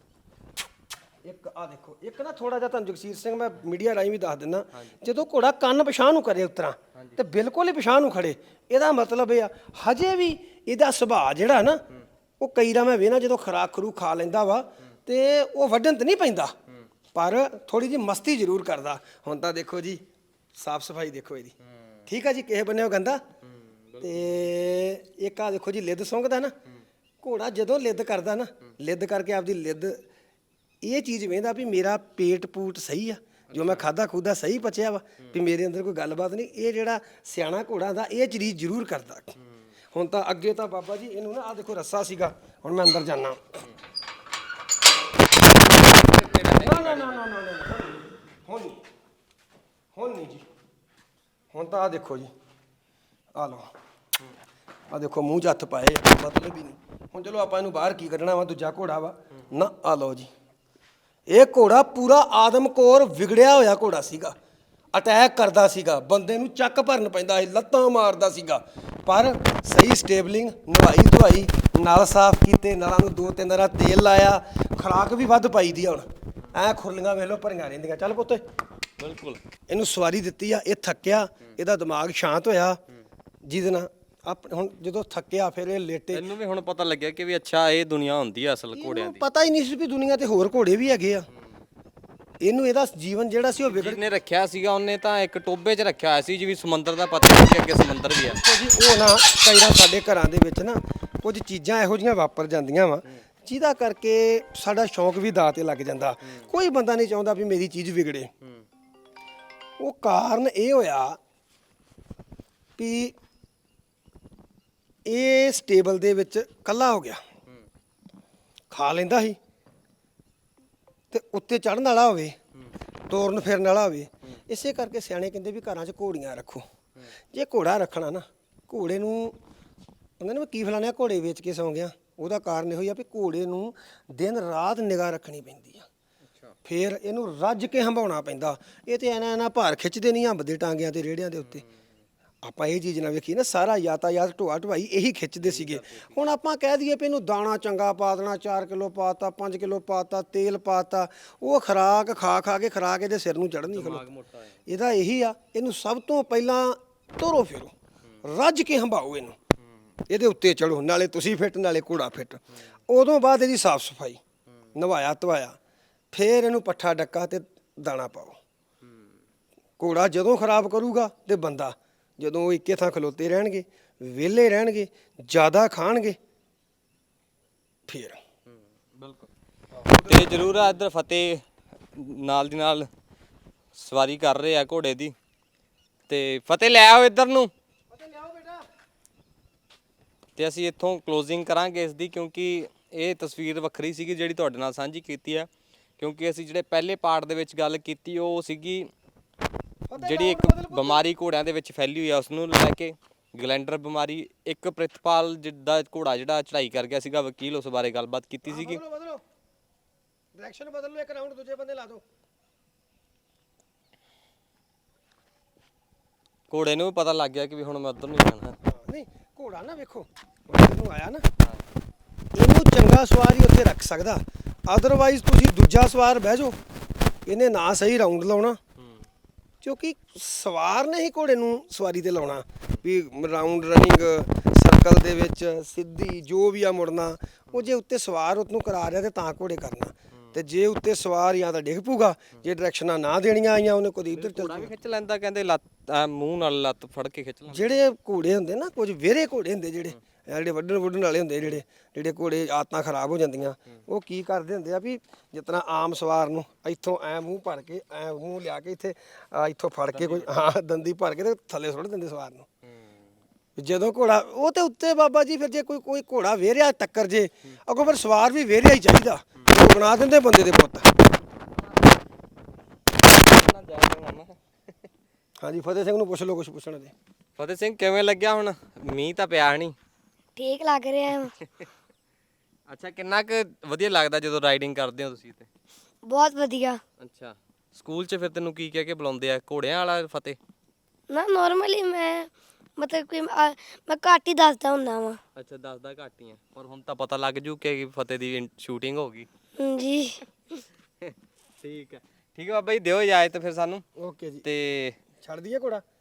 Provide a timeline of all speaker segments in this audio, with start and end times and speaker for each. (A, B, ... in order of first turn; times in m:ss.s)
0:01.2-0:11.8 A
0:12.4-0:16.5 A
0:17.1-0:20.0 A
0:20.6-0:21.6 A
0:22.1-0:23.2 A
0:23.5-0:24.5 B
0:24.0-0:26.5 A
0:27.2-0:30.0 A
0:30.8-0:39.4 A
0:33.5-0:33.9 B
0:39.9-0:43.6 A
0:45.7-0:47.2 B
0:46.6-0:48.8 A
0:50.0-0:50.4 A
0:51.5-0:52.3 A
0:53.4-0:53.7 A
0:54.9-1:00.3 A
1:01.3-1:04.4 A
1:04.9-1:18.4 A
1:19.0-1:19.4 B
1:19.7-1:22.8 A
1:23.4-1:26.3 A
1:26.1-1:29.2 B
1:28.7-1:31.3 A
1:32.4-1:34.0 A
1:33.7-1:38.4 B
1:38.3-1:48.3 A
1:49.8-1:51.2 A
1:52.8-1:53.2 A
1:55.0-1:57.2 A
1:58.7-1:59.4 A
2:01.1-2:02.4 A
2:03.1-2:06.6 A
2:07.3-2:09.4 A
2:10.2-2:15.9 A
2:16.6-2:21.6 A
2:21.4-2:21.7 B
2:22.4-2:34.0 A
2:25.4-2:26.2 B
2:33.7-2:34.6 B
2:34.7-2:37.7 A
2:38.2-2:39.4 A
2:40.1-2:44.2 A
2:44.8-2:45.6 A
2:46.1-2:48.4 A
2:49.8-2:56.2 A
2:57.9-2:58.2 A
2:59.0-2:59.3 B
2:59.7-3:00.8 A
3:00.0-3:02.9 B
3:03.7-3:05.2 B
3:06.1-3:07.5 B
3:07.9-3:08.6 A
3:10.4-3:18.9 B
3:19.9-3:21.0 A
3:20.0-3:28.8 B
3:28.5-3:29.2 A
3:30.4-3:32.0 A
3:36.5-3:38.6 B
3:38.6-3:41.3 A
3:42.4-3:46.6 A
3:47.3-3:48.6 A
3:48.8-3:49.0 B
3:49.6-4:04.7 A
4:04.2-4:07.8 B
4:07.5-4:22.5 A
4:19.9-4:20.5 B
4:22.7-4:23.0 B
4:23.6-4:30.9 A
4:33.1-4:34.4 B
4:35.4-4:36.9 A
4:37.4-4:39.8 B
4:40.4-4:41.4 C
4:42.7-4:45.5 B
4:46.0-4:46.8 C
4:47.0-4:50.4 B
4:51.1-4:55.2 C
4:55.4-4:59.3 B
4:59.6-5:00.3 C
5:01.0-5:03.8 B
5:04.0-5:04.5 A
5:04.4-5:05.0 B
5:05.2-5:05.8 A